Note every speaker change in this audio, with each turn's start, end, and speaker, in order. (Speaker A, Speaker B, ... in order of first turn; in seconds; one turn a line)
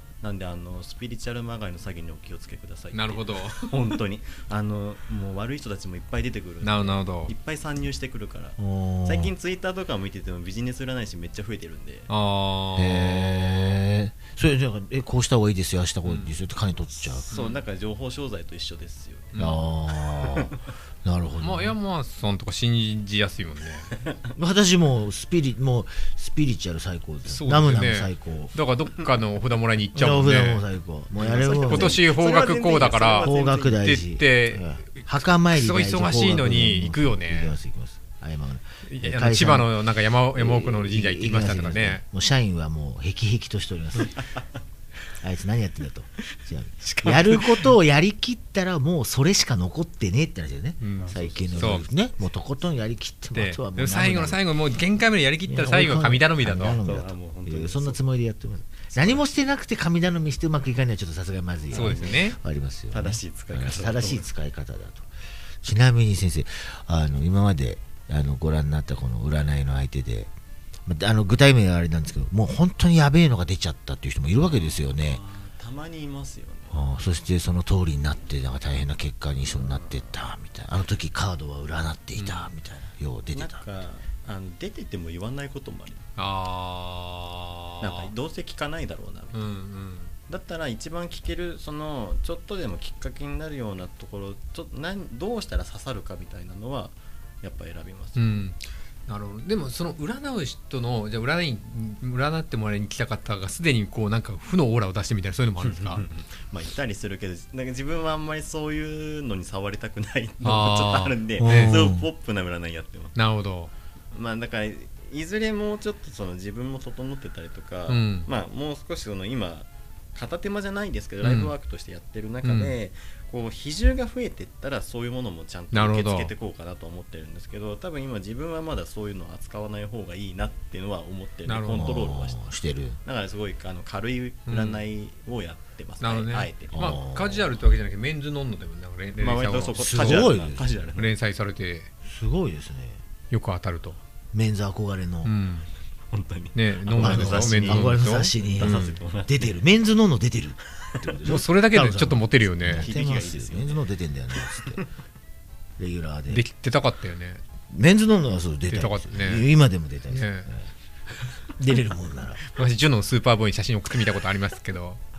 Speaker A: 0.2-12.1
Speaker B: 2.9-3.9
Speaker B: 6.6-7.3
Speaker C: 8.6-9.3
Speaker B: 12.1-13.8
Speaker C: 12.8-17.3
Speaker B: 16.1-16.4
Speaker A: 17.3-19.6
Speaker B: 17.3-17.6
Speaker B: 19.3-19.6
Speaker C: 19.4-21.8
Speaker A: 20.1-20.6
Speaker B: 21.4-23.9
Speaker C: 24.4-28.5
Speaker B: 27.3-37.6
Speaker C: 29.9-32.0
Speaker A: 31.2-33.9
Speaker C: 33.2-39.7
Speaker B: 38.9-42.0
Speaker C: 40.4-44.2
Speaker A: 44.2-44.5
Speaker C: 45.2-54.4
Speaker A: 46.8-47.4
Speaker B: 50.8-51.8
Speaker A: 51.0-51.9
Speaker B: 53.4-56.8
Speaker C: 55.5-65.1
Speaker A: 56.7-58.0
Speaker A: 58.9-59.2
Speaker B: 61.7-62.4
Speaker A: 61.7-62.2
Speaker A: 62.9-64.3
Speaker C: 65.6-70.3
Speaker C: 70.9-75.2
Speaker A: 74.4-76.8
Speaker C: 76.7-83.6
Speaker A: 79.4-80.2
Speaker B: 82.2-82.5
Speaker A: 83.3-86.1
Speaker B: 86.2-88.1
Speaker A: 87.8-89.5
Speaker B: 89.3-90.2
Speaker A: 90.3-98.4
Speaker B: 98.2-106.0
Speaker A: 105.6-113.2
Speaker B: 110.4-111.8
Speaker C: 111.4-112.1
Speaker B: 113.2-113.7
Speaker A: 114.1-132.4
Speaker B: 117.9-118.3
Speaker B: 121.2-121.5
Speaker B: 122.4-122.8
Speaker B: 125.7-126.3
Speaker B: 131.5-131.9
Speaker C: 131.7-133.0
Speaker A: 133.1-137.0
Speaker B: 134.5-134.8
Speaker B: 136.0-140.3
Speaker C: 136.8-137.6
Speaker A: 139.2-141.1
Speaker C: 139.8-140.8
Speaker B: 141.0-141.9
Speaker C: 142.1-143.0
Speaker B: 143.3-144.0
Speaker C: 144.3-145.3
Speaker B: 145.2-145.7
Speaker A: 146.1-149.5
Speaker B: 146.5-149.0
Speaker C: 147.0-154.8
Speaker B: 151.2-152.9
Speaker A: 152.8-153.9
Speaker A: 154.6-154.9
Speaker C: 155.8-156.4
Speaker B: 156.3-157.4
Speaker C: 157.7-160.7
Speaker B: 158.7-159.5
Speaker B: 160.1-160.5
Speaker C: 161.6-162.4
Speaker B: 162.5-165.0